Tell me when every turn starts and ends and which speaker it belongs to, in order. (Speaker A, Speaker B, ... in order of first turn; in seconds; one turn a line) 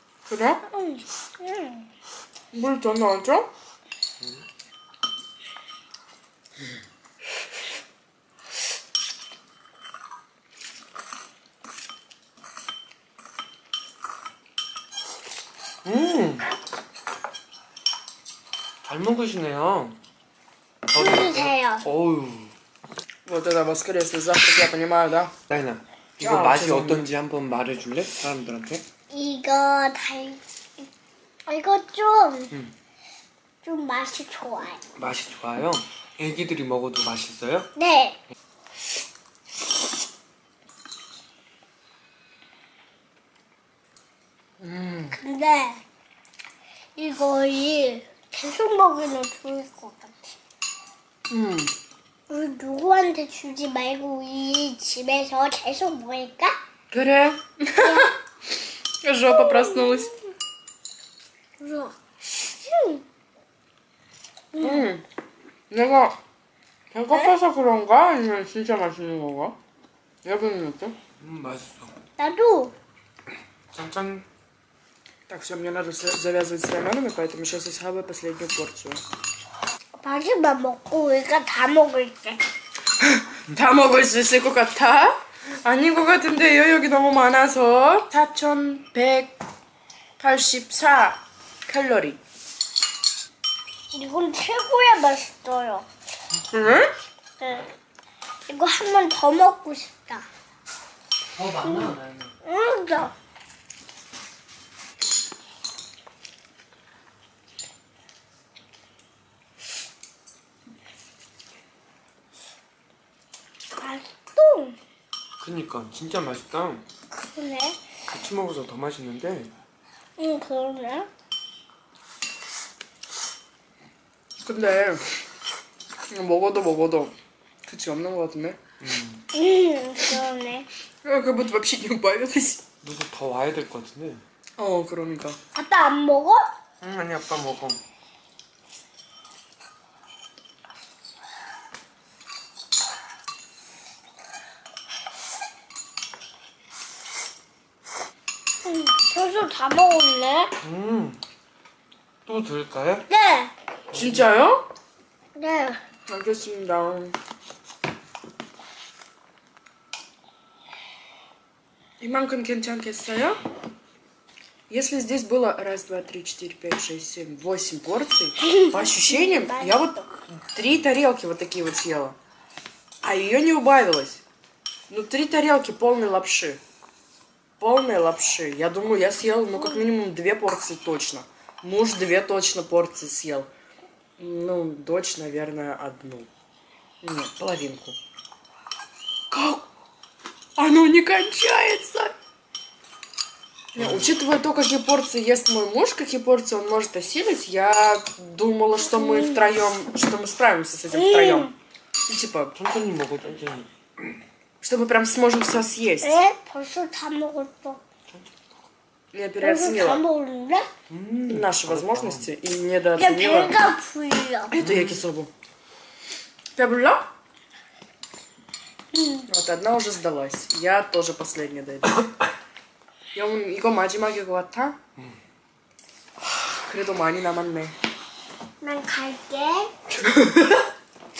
Speaker A: 0.3-0.6
Speaker B: 0.7-1.9
Speaker A: 2.5-3.5
Speaker C: 15.8-16.5
Speaker C: 18.8-20.0
Speaker C: 20.9-22.5
Speaker B: 20.9-21.8
Speaker A: 23.2-25.3
Speaker C: 25.5-28.8
Speaker A: 26.2-27.1
Speaker B: 29.1-30.9
Speaker B: 31.5-32.5
Speaker B: 33.6-34.8
Speaker C: 35.0-37.7
Speaker B: 37.8-38.2
Speaker A: 44.6-45.1
Speaker B: 45.1-45.8
Speaker B: 47.0-50.3
Speaker A: 51.3-51.7
Speaker B: 52.3-56.6
Speaker A: 56.9-58.1
Speaker B: 57.8-58.1
Speaker A: 59.0-60.1
Speaker B: 59.3-60.1
Speaker B: 61.6-63.0
Speaker B: 64.5-64.9
Speaker A: 64.6-65.0
Speaker A: 65.7-66.2
Speaker A: 66.9-69.5
Speaker A: 70.2-71.0
Speaker C: 71.2-71.9
Speaker B: 72.2-72.7
Speaker C: 73.7-74.2
Speaker A: 75.3-79.0
Speaker B: 80.0-82.4
Speaker A: 83.0-89.3
Speaker A: 90.2-92.2
Speaker B: 93.9-95.8
Speaker A: 96.5-96.9
Speaker B: 97.4-97.7
Speaker B: 98.5-100.2
Speaker C: 101.3-102.3
Speaker B: 101.6-103.1
Speaker B: 113.8-114.8
Speaker C: 115.4-116.8
Speaker B: 117.3-117.8
Speaker C: 118.1-119.5
Speaker B: 120.2-121.1
Speaker A: 124.4-125.0
Speaker A: 126.1-127.1
Speaker A: 127.6-128.6
Speaker C: 128.8-129.2
Speaker B: 129.3-130.7
Speaker A: 131.0-132.6
Speaker C: 132.8-134.2
Speaker A: 134.6-135.4
Speaker B: 135.5-136.5
Speaker C: 136.8-137.8
Speaker B: 148.6-150.5
Speaker C: 150.6-151.2
Speaker C: 152.2-153.1
Speaker B: 153.1-153.5
Speaker C: 153.9-154.2
Speaker A: 153.9-154.7
Speaker B: 155.3-155.8
Speaker A: 156.1-157.2
Speaker A: 162.0-163.4
Speaker A: 164.7-172.2
Speaker B: 168.5-170.1
Speaker A: 173.0-174.2
Speaker A: 174.9-176.6
Speaker A: 177.6-183.5
Speaker B: 179.5-179.9
Speaker A: 184.2-186.3
Speaker A: 187.0-188.0
Speaker A: 189.3-189.6
Speaker A: 190.6-192.1
Speaker A: 193.7-201.5
Speaker C: 193.8-194.1
Speaker B: 198.9-199.3
Speaker B: 200.9-201.5
Speaker A: 202.1-202.5
Speaker C: 202.5-203.7
Speaker A: 204.6-206.2
Speaker B: 206.0-207.8
Speaker A: 209.1-210.0
Speaker B: 209.4-210.7
Speaker C: 210.9-212.3
Speaker A: 211.3-213.5
Speaker B: 213.0-214.5
Speaker A: 214.5-215.3
Speaker C: 214.6-215.0
Speaker A: 216.6-217.0
Speaker B: 218.9-219.2
Speaker A: 219.3-222.0
Speaker A: 223.1-224.8
Speaker A: 226.5-227.7
Speaker B: 228.6-229.7
Speaker A: 229.9-230.6